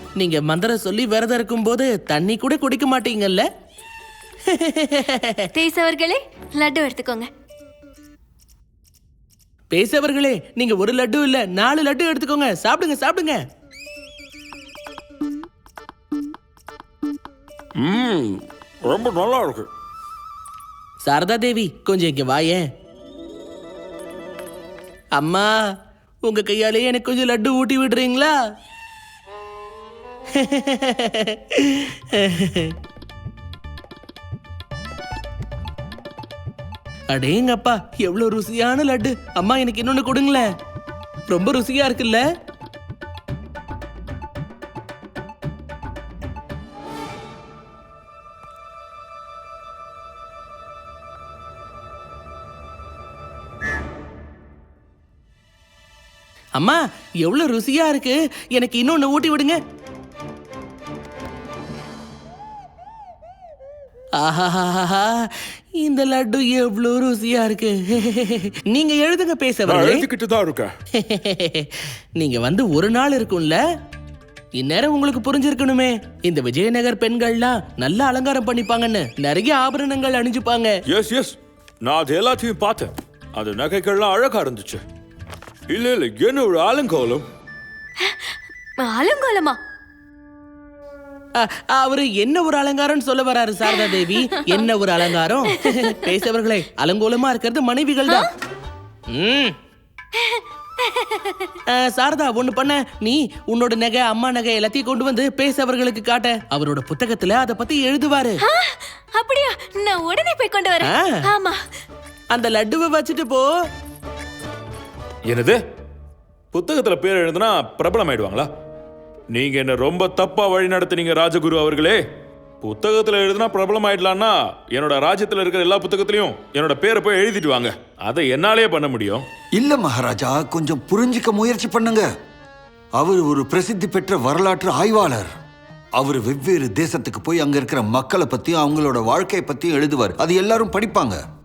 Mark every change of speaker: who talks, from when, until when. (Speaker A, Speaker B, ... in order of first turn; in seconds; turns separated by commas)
Speaker A: 0.2-3.5, Speaker A: 4.5-5.3, Speaker B: 5.5-7.3, Speaker A: 9.7-13.4, Speaker C: 17.8-19.7, Speaker A: 21.0-22.7, Speaker A: 25.2-25.7, Speaker A: 26.2-28.4, Speaker A: 30.4-32.7, Speaker A: 37.1-40.5, Speaker A: 41.3-42.2, Speaker A: 56.6-59.6, Speaker A: 64.2-70.1, Speaker C: 69.7-70.8, Speaker A: 71.0-73.6, Speaker A: 74.6-80.7, Speaker C: 80.9-84.8, Speaker C: 85.7-87.3, Speaker B: 88.0-89.6, Speaker A: 91.4-98.3, Speaker A: 99.1-99.5, Speaker B: 100.2-101.5, Speaker A: 101.7-108.4, Speaker B: 108.4-111.6, Speaker A: 110.8-111.2, Speaker A: 112.3-113.5, Speaker C: 115.3-115.6, Speaker C: 116.5-118.5, Speaker C: 119.3-122.0, Speaker C: 122.6-129.2, Speaker D: 129.6-132.1, Speaker D: 133.0-135.3, Speaker D: 136.0-141.2